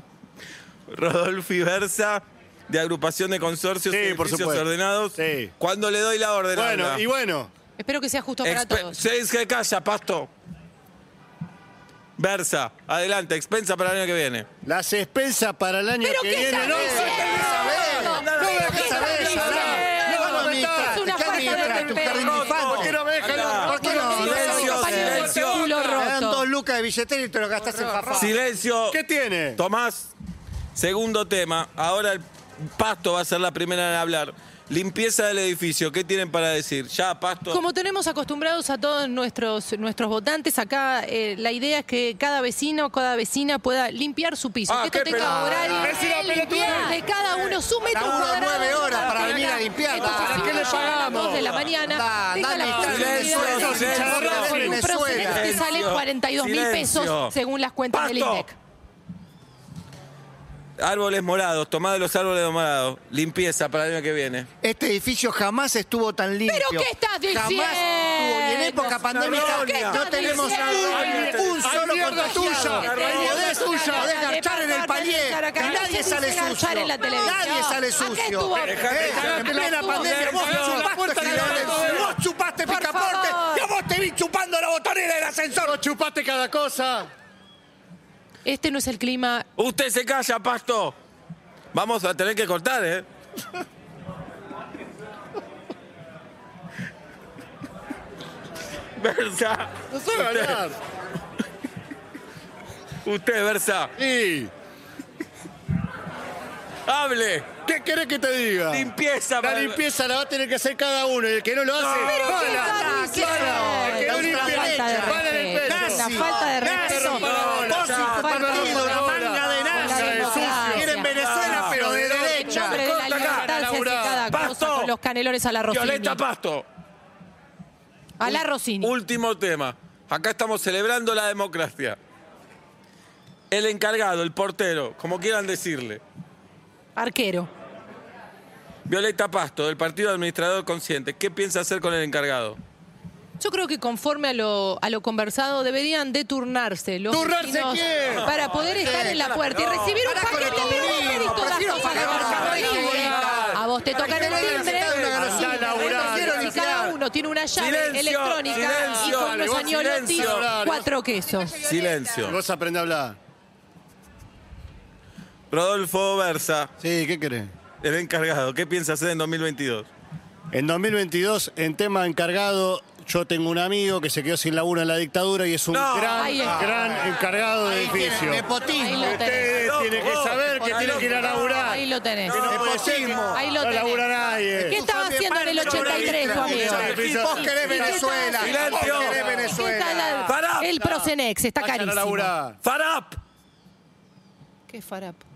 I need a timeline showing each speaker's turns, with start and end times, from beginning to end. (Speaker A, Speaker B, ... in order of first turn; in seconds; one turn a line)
Speaker A: 0.9-7.0
Speaker B: 3.9-5.5
Speaker B: 6.5-7.5
Speaker C: 7.8-9.0
Speaker A: 8.4-10.3
Speaker A: 12.2-14.5
Speaker B: 14.7-26.1
Speaker C: 16.0-22.6
Speaker D: 16.5-23.0
Speaker A: 18.0-19.4
Speaker A: 22.1-25.7
Speaker C: 23.6-26.4
Speaker D: 23.8-25.3
Speaker D: 26.0-28.4
Speaker A: 28.1-29.0
Speaker B: 28.9-29.6
Speaker A: 29.6-30.1
Speaker A: 30.8-37.6
Speaker C: 37.5-58.5
Speaker A: 44.7-45.6
Speaker D: 45.2-46.0
Speaker B: 45.7-47.0
Speaker D: 47.9-50.9
Speaker B: 49.9-51.5
Speaker A: 50.8-51.7
Speaker D: 51.8-55.6
Speaker B: 52.6-54.9
Speaker A: 52.8-54.5
Speaker A: 55.1-57.3
Speaker A: 57.9-58.5
Speaker A: 60.8-64.5
Speaker D: 64.6-85.8
Speaker C: 66.5-71.3
Speaker A: 69.1-72.0
Speaker B: 70.9-74.1
Speaker C: 72.1-82.0
Speaker A: 72.8-73.4
Speaker A: 78.5-82.0
Speaker B: 79.2-82.1
Speaker C: 82.7-83.7
Speaker B: 85.6-87.1
Speaker C: 88.4-89.5
Speaker A: 89.6-91.0
Speaker A: 91.7-93.0
Speaker A: 99.0-100.6
Speaker B: 99.9-100.8
Speaker A: 103.0-103.9
Speaker B: 104.0-104.5
Speaker A: 106.8-107.5
Speaker B: 107.7-116.1
Speaker A: 108.7-109.8
Speaker A: 111.8-112.2
Speaker C: 112.0-117.3
Speaker D: 112.3-122.8
Speaker B: 116.6-124.3
Speaker A: 117.0-118.7
Speaker C: 117.9-121.2
Speaker A: 121.1-121.8
Speaker C: 122.2-126.2
Speaker A: 122.8-123.5
Speaker A: 124.3-124.9
Speaker A: 125.7-126.7
Speaker C: 128.2-128.9
Speaker A: 128.2-132.0
Speaker A: 133.5-136.0
Speaker C: 137.0-137.5
Speaker A: 138.9-142.6
Speaker C: 143.4-161.6
Speaker B: 147.1-148.3
Speaker A: 148.1-155.3
Speaker D: 148.8-149.2
Speaker D: 150.0-157.0
Speaker B: 155.1-156.8
Speaker A: 157.6-160.5
Speaker B: 158.5-160.9
Speaker A: 161.6-162.3
Speaker B: 162.2-163.2
Speaker A: 165.5-166.7
Speaker B: 166.8-167.5
Speaker A: 167.8-169.9
Speaker B: 170.5-184.8
Speaker A: 175.7-176.5
Speaker C: 176.1-177.1
Speaker D: 177.6-179.2
Speaker C: 178.7-179.6
Speaker A: 179.4-183.0
Speaker D: 180.7-181.3
Speaker C: 181.5-182.4
Speaker D: 182.4-183.5
Speaker C: 183.1-187.0
Speaker D: 184.7-190.3
Speaker A: 185.5-187.5
Speaker B: 186.3-192.6
Speaker C: 187.6-188.7
Speaker A: 188.4-189.4
Speaker C: 189.2-192.3
Speaker A: 190.3-190.7
Speaker A: 192.6-193.2
Speaker C: 194.7-195.2